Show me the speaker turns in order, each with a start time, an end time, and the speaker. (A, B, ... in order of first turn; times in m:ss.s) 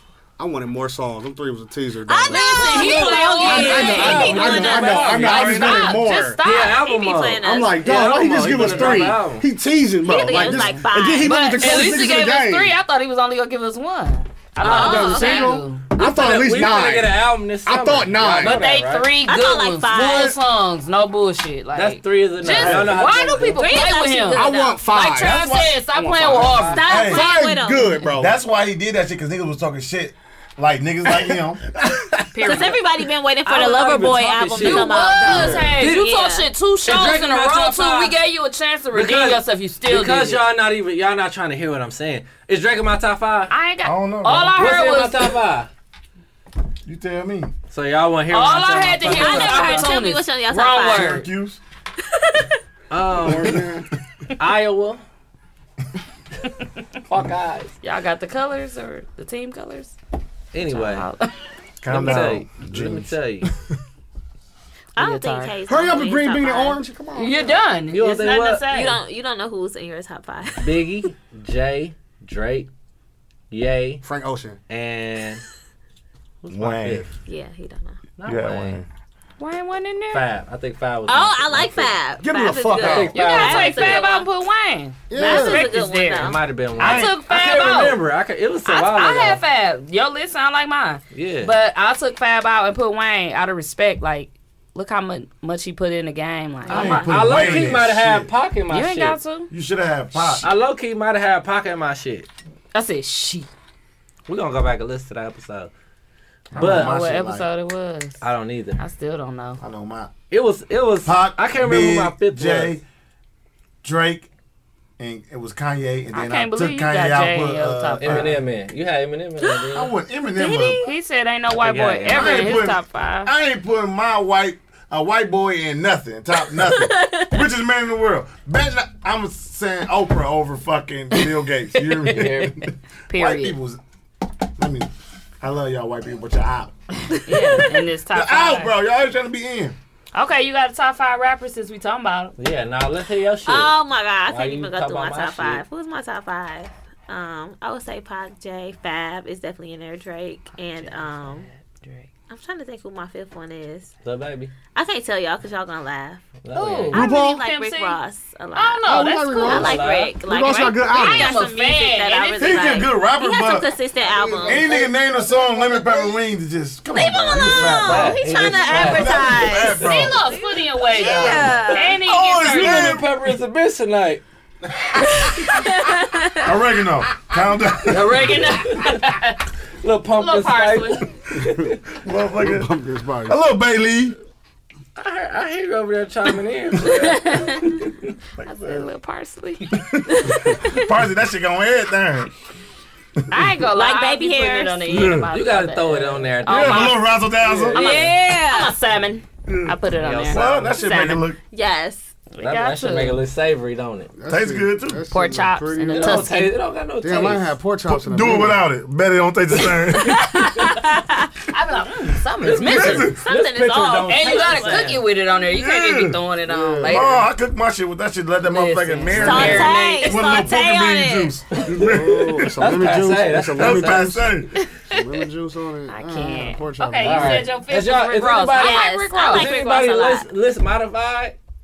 0:00.4-0:02.8 A
0:02.1-0:05.8 B
0:02.3-0:06.8 C
0:02.8-0:05.9 D
0:03.4-0:06.4 A
0:05.2-0:05.9 E
0:06.4-0:09.4 D
0:06.6-0:08.0 B
0:07.4-0:12.7 A
0:08.6-0:08.9 B
0:10.0-0:12.0 B
0:10.3-0:15.8 C
0:14.6-0:15.1 D
0:14.6-0:15.6 B
0:14.6-0:18.6 A
0:16.0-0:19.1 D
0:18.4-0:26.8 C
0:19.2-0:20.4 B
0:19.9-0:20.3 A
0:21.7-0:23.6 D
0:22.6-0:23.1 A
0:23.4-0:24.9 B
0:24.3-0:25.4 A
0:25.2-0:25.8 E
0:25.9-0:28.3 A
0:26.4-0:26.8 D
0:26.7-0:28.0 B
0:26.9-0:27.2 E
0:28.2-0:31.6 E
0:31.8-0:32.7 D
0:32.3-0:32.8 C
0:32.4-0:36.5 B
0:33.4-0:36.0 D
0:34.6-0:40.4 C
0:36.8-0:38.2 D
0:38.9-0:43.5 D
0:43.5-0:45.3 C
0:43.8-0:44.6 E
0:44.6-0:45.7 D
0:46.8-0:47.5 E
0:47.7-0:49.9 D
0:48.3-0:51.3 C
0:49.0-0:51.1 B
0:50.9-0:51.6 E
0:52.2-0:52.5 B
0:52.9-0:53.7 D
0:53.2-0:53.9 A
0:54.4-0:55.0 D
0:57.1-0:57.7 D
0:57.8-0:59.9 C
1:00.5-1:01.0 D
1:00.7-1:01.3 C
1:01.8-1:03.5 E
1:01.9-1:03.5 D
1:05.0-1:06.8 B
1:05.0-1:05.6 C
1:05.6-1:07.5 A
1:07.1-1:09.0 C
1:07.9-1:08.6 D
1:08.7-1:10.8 B
1:10.6-1:12.7 D
1:13.5-1:14.0 D
1:14.0-1:14.6 A
1:14.7-1:15.4 D
1:16.4-1:17.1 D
1:16.5-1:17.0 E
1:17.3-1:18.0 B
1:18.2-1:18.8 D
1:18.2-1:18.9 E
1:19.4-1:20.3 C
1:20.1-1:21.9 D
1:21.1-1:24.3 B
1:22.2-1:23.2 A
1:22.8-1:24.0 D
1:23.1-1:28.0 C
1:25.1-1:25.7 A
1:25.2-1:26.4 B
1:26.2-1:29.4 D
1:26.8-1:27.1 E
1:28.6-1:37.7 C
1:31.1-1:31.5 D
1:36.7-1:38.3 E
1:36.7-1:37.0 B
1:36.7-1:39.2 D
1:38.7-1:39.5 C
1:39.5-1:40.5 E
1:40.4-1:42.3 D
1:42.7-1:43.5 C
1:44.3-1:45.7 D
1:46.5-1:48.2 C
1:46.5-1:46.9 D
1:46.5-1:47.5 E
1:48.2-1:48.8 D
1:48.8-1:49.6 C
1:49.6-1:50.1 E
1:50.3-1:52.7 D
1:51.0-1:52.8 E
1:53.8-1:54.3 E
1:55.0-1:58.4 E
1:56.1-1:58.3 C
1:58.0-1:59.9 D
1:59.7-2:00.8 E
2:00.4-2:00.9 B
2:00.8-2:03.3 C
2:01.6-2:02.6 D
2:02.1-2:13.8 E
2:06.6-2:07.4 B
2:12.1-2:12.6 D
2:13.1-2:13.6 C
2:14.6-2:14.9 E
2:15.4-2:16.7 E
2:17.2-2:18.7 C
2:18.1-2:19.8 E
2:20.1-2:22.3 C
2:22.4-2:23.7 D
2:23.4-2:31.5 B
2:24.3-2:25.6 D
2:30.7-2:32.1 C
2:32.3-2:33.9 B
2:34.0-2:34.5 D
2:34.7-2:36.2 B
2:36.4-2:37.0 D
2:36.5-2:38.0 C
2:36.9-2:44.9 B
2:36.9-2:37.4 A
2:38.5-2:39.8 C
2:38.8-2:41.4 A
2:39.4-2:40.1 D
2:40.9-2:42.8 C
2:42.4-2:43.7 E
2:44.1-2:44.8 A
2:44.4-2:50.2 E
2:46.9-2:50.1 B
2:47.8-2:49.3 D
2:49.8-2:53.0 C
2:50.9-2:52.0 B
2:52.0-2:53.1 E
2:52.4-2:54.2 D
2:55.5-2:56.5 B
2:56.4-2:58.6 E
2:57.8-2:59.4 C
2:59.8-3:01.8 D
3:00.2-3:01.0 C
3:02.0-3:02.7 E
3:02.4-3:03.4 A
3:03.3-3:04.2 E
3:05.0-3:07.5 D
3:08.4-3:08.8 E
3:08.4-3:09.6 C
3:09.8-3:12.3 E
3:10.1-3:10.9 B
3:13.3-3:17.1 C
3:13.7-3:15.1 B
3:14.9-3:15.3 E
3:15.3-3:18.1 D
3:16.5-3:17.8 E
3:17.7-3:18.8 B
3:17.7-3:21.3 C
3:19.5-3:19.7 E
3:20.0-3:20.7 D
3:20.2-3:21.4 E
3:21.5-3:22.1 B
3:22.3-3:23.2 C
3:22.4-3:24.1 D
3:24.2-3:26.3 A
3:24.3-3:25.0 E
3:25.1-3:26.5 C
3:25.9-3:27.5 D
3:27.0-3:28.6 A
3:27.9-3:30.3 E
3:30.0-3:31.3 B
3:31.5-3:33.1 C
3:32.4-3:35.0 D
3:32.6-3:33.2 E
3:33.2-3:35.0 B
3:34.1-3:37.2 C
3:35.5-3:36.2 E
3:36.4-3:37.1 A
3:36.8-3:42.6 E
3:38.4-3:40.1 C
3:39.1-3:41.4 B
3:39.2-3:39.7 A
3:41.5-3:41.9 D
3:41.6-3:44.3 A
3:42.6-3:44.1 D
3:43.5-3:44.5 E
3:44.9-3:47.5 A
3:45.9-3:49.5 C
3:47.0-3:51.4 D
3:48.5-3:50.3 B